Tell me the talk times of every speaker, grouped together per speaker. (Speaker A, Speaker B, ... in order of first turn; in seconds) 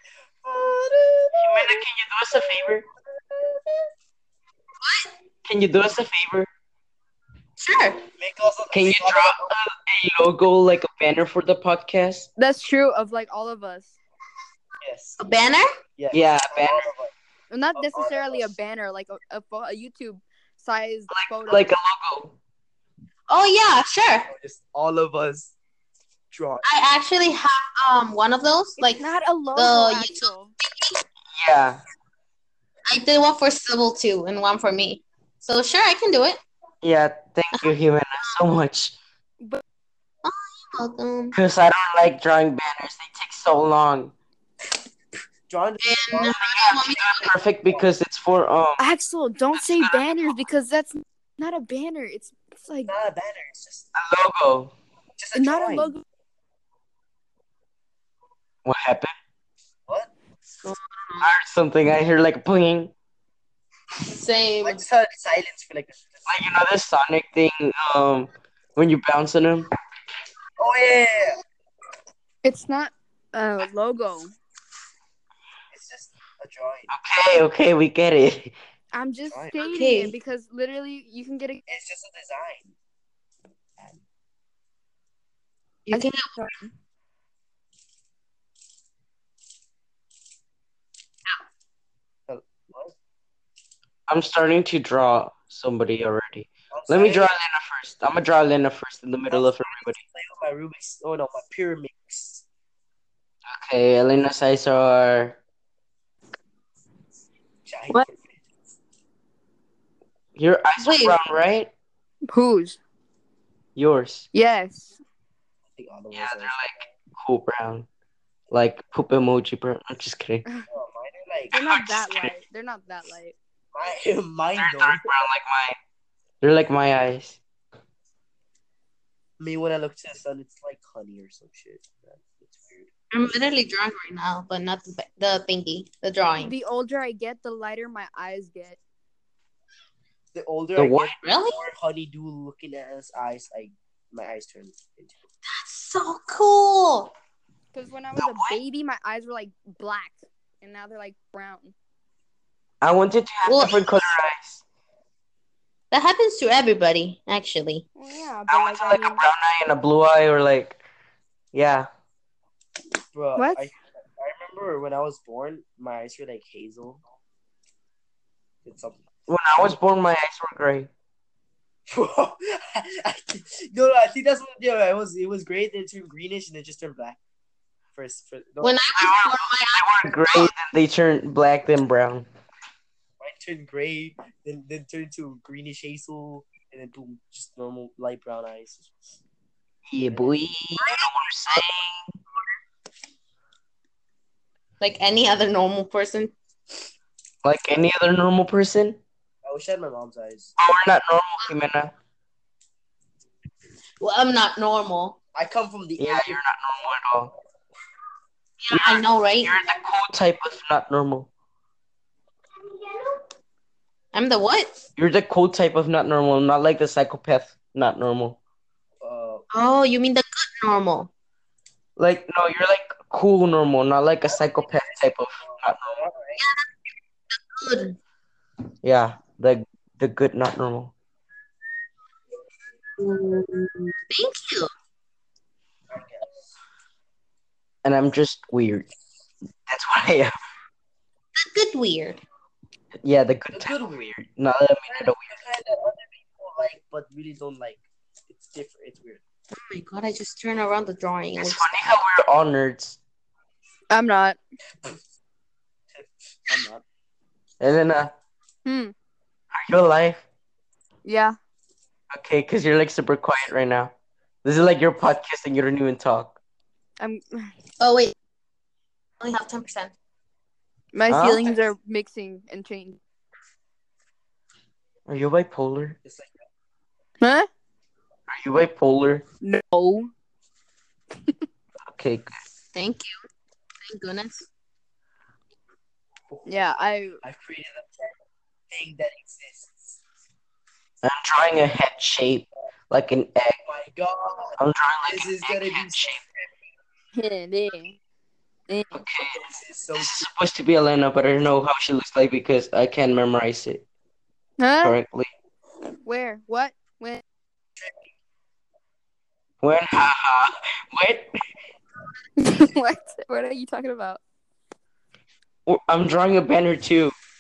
Speaker A: 0.4-1.8, 3.3-3.8, 8.2-9.5, 14.8-15.2, 16.0-17.1, 17.8-18.5, 24.3-25.5, 26.3-26.6, 45.5-46.4, 52.9-53.9, 55.2-55.9, 64.6-66.4, 70.6-71.4, 75.7-76.9, 79.3-79.6, 81.7-82.7, 92.3-92.9, 96.7-97.3, 99.3-102.4, 107.7-108.4, 115.7-116.9, 120.7-121.5, 123.7-125.1, 129.4-132.9, 140.3-145.2, 163.1-167.0, 168.7-169.1, 171.9-177.2, 177.9-178.8, 183.2-189.0, 190.0-190.3, 199.4-200.5, 205.3-207.0, 219.0-219.4, 224.6-226.4, 235.9-236.3, 243.5-244.0, 244.9-249.2, 255.9-256.8, 276.0-276.3, 286.3-286.6, 287.2-288.2, 288.7-290.0, 293.7-296.5, 299.3-300.3, 307.8-308.1
Speaker B: 1.4-2.9, 5.5-6.5, 8.7-12.3, 16.1-16.9, 21.1-22.4, 31.3-31.8, 36.8-39.0, 41.3-44.1, 46.2-48.9, 49.5-50.4, 54.0-54.7, 58.6-59.1, 61.2-62.9, 66.3-69.7, 76.9-78.5, 94.1-100.0, 103.5-105.4, 110.4-111.7, 113.8-114.3, 116.1-117.9, 118.5-120.4, 121.5-122.3, 124.6-125.8, 126.4-127.4, 140.8-141.2, 148.2-148.6, 152.8-154.6, 158.5-160.8, 161.5-161.9, 169.3-170.9, 178.9-182.3, 189.9-192.1, 197.4-199.0, 200.6-201.9, 206.0-207.3, 208.7-211.3, 215.0-218.4, 222.0-226.0, 228.8-230.9, 237.8-238.9, 239.7-240.3, 243.0-245.3, 251.4-253.0, 257.6-258.1, 259.5-260.2, 262.1-263.9, 264.4-266.4, 271.1-271.5, 275.1-276.0, 278.3-279.2, 281.9-282.3, 291.0-293.6, 294.6-296.2, 298.9-299.4, 299.9-303.8, 304.8-305.3, 309.6-311.3, 315.7-317.1
Speaker C: 4.8-5.1, 7.6-8.1, 15.2-15.7, 23.3-24.3, 26.6-29.0, 29.6-31.0, 32.9-36.4, 37.5-38.4, 40.2-41.4, 45.8-47.4, 60.6-61.3, 64.1-64.8, 79.6-80.1, 85.9-86.3, 110.8-111.2, 133.1-136.5, 141.2-141.7, 145.5-147.1, 153.5-153.8, 155.9-157.9, 178.6-180.5, 194.8-196.3, 204.0-205.2, 208.6-209.6, 214.1-214.8, 219.5-221.1, 226.4-226.7, 227.3-228.0, 233.0-234.7, 241.4-242.2, 249.5-251.9, 267.8-268.1, 269.2-269.9, 282.7-283.2, 283.8-284.5
Speaker D: 12.4-13.9, 17.5-21.7, 28.8-30.5, 48.8-52.9, 55.4-56.0, 72.4-74.3, 78.9-81.6, 85.9-86.7, 112.3-112.8, 114.3-115.0, 121.5-123.4, 136.4-138.8, 147.7-151.7, 158.0-159.3, 163.4-163.6, 253.9-254.4, 258.6-258.9, 261.1-261.4, 267.0-267.5, 270.9-273.0, 277.2-277.5, 279.4-280.1, 286.5-287.2, 297.1-298.0, 298.7-299.0, 304.6-305.0, 306.0-307.2, 312.4-314.2